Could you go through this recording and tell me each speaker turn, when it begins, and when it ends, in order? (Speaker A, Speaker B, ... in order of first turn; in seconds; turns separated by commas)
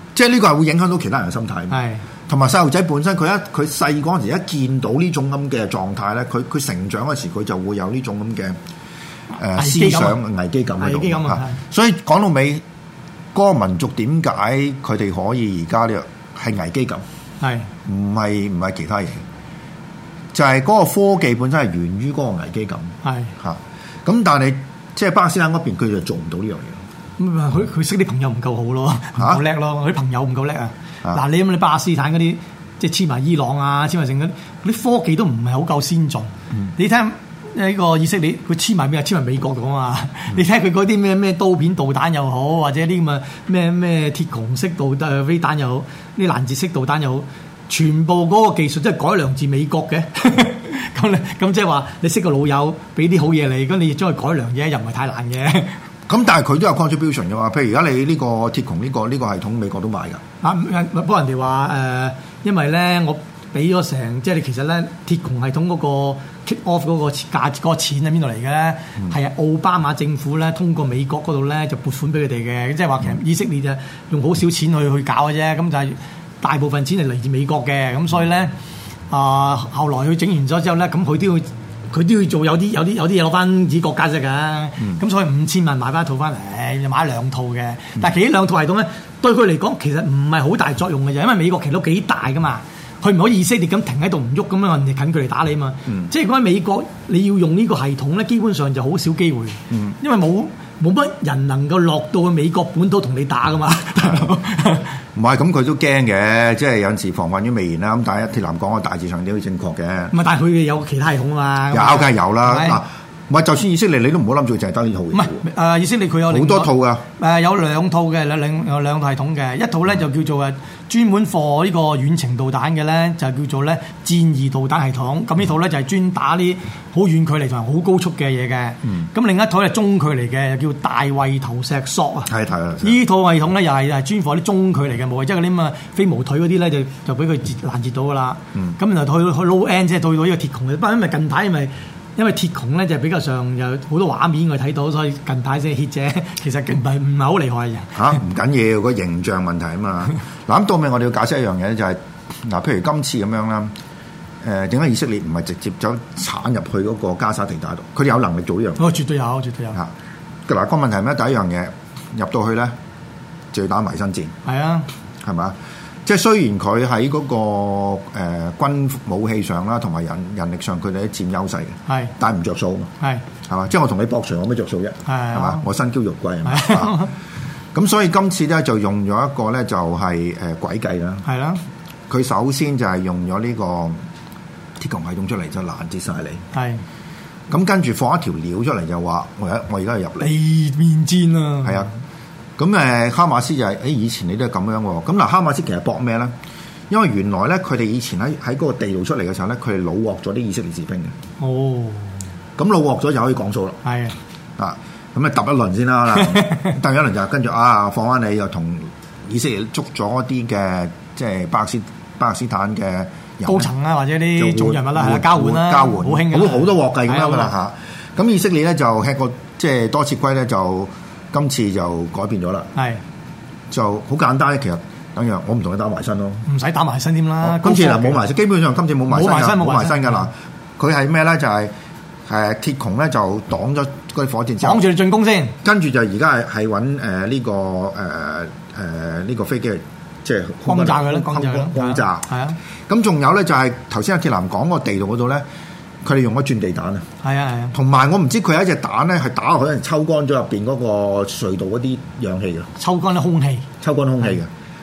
Speaker A: 0.1-8.6, Speaker B: 1.7-2.0, Speaker A: 9.3-12.6, Speaker B: 9.5-10.2, Speaker B: 10.8-11.6, Speaker A: 13.3-17.0, Speaker B: 17.4-17.7, Speaker A: 17.9-19.2, Speaker A: 20.3-26.8, Speaker B: 23.0-23.3, Speaker B: 27.2-55.7, Speaker A: 29.2-29.4, Speaker A: 56.1-60.2, Speaker B: 60.4-78.5, Speaker B: 79.1-104.9, Speaker A: 95.9-96.1, Speaker A: 99.7-100.0, Speaker A: 104.0-104.3, Speaker A: 105.2-110.2, Speaker B: 110.1-112.8, Speaker A: 111.7-115.5, Speaker B: 115.1-132.3, Speaker A: 116.3-117.1, Speaker A: 132.3-133.0, Speaker B: 132.8-148.0, Speaker A: 148.0-153.7, Speaker A: 154.4-158.9, Speaker B: 158.8-159.8, Speaker A: 160.5-162.7, Speaker A: 163.5-164.3, Speaker B: 164.4-164.9, Speaker A: 165.2-172.9, Speaker B: 171.9-172.1, Speaker B: 173.0-173.2, Speaker A: 173.4-177.1, Speaker B: 175.1-175.6, Speaker B: 176.4-177.1, Speaker A: 177.7-181.3, Speaker B: 181.2-181.6, Speaker A: 182.1-184.0, Speaker A: 184.8-186.4, Speaker B: 186.5-186.8, Speaker A: 187.5-190.3, Speaker B: 190.2-191.9, Speaker A: 191.6-191.9, Speaker A: 192.6-196.3, Speaker A: 196.9-201.2, Speaker B: 201.4-202.2, Speaker A: 202.6-203.8, Speaker B: 203.8-204.2, Speaker A: 204.6-213.7, Speaker B: 206.1-206.8, Speaker B: 213.5-217.5, Speaker A: 214.3-222.7, Speaker B: 222.8-223.0, Speaker A: 223.7-226.5, Speaker B: 226.5-228.2, Speaker A: 227.4-231.7, Speaker B: 229.1-230.3, Speaker A: 232.3-234.9, Speaker B: 234.6-235.6, Speaker A: 235.6-242.3, Speaker B: 240.7-242.6, Speaker A: 242.9-245.4, Speaker A: 246.0-247.1, Speaker B: 247.2-247.8, Speaker A: 247.7-252.7, Speaker B: 252.8-253.7, Speaker A: 253.8-254.5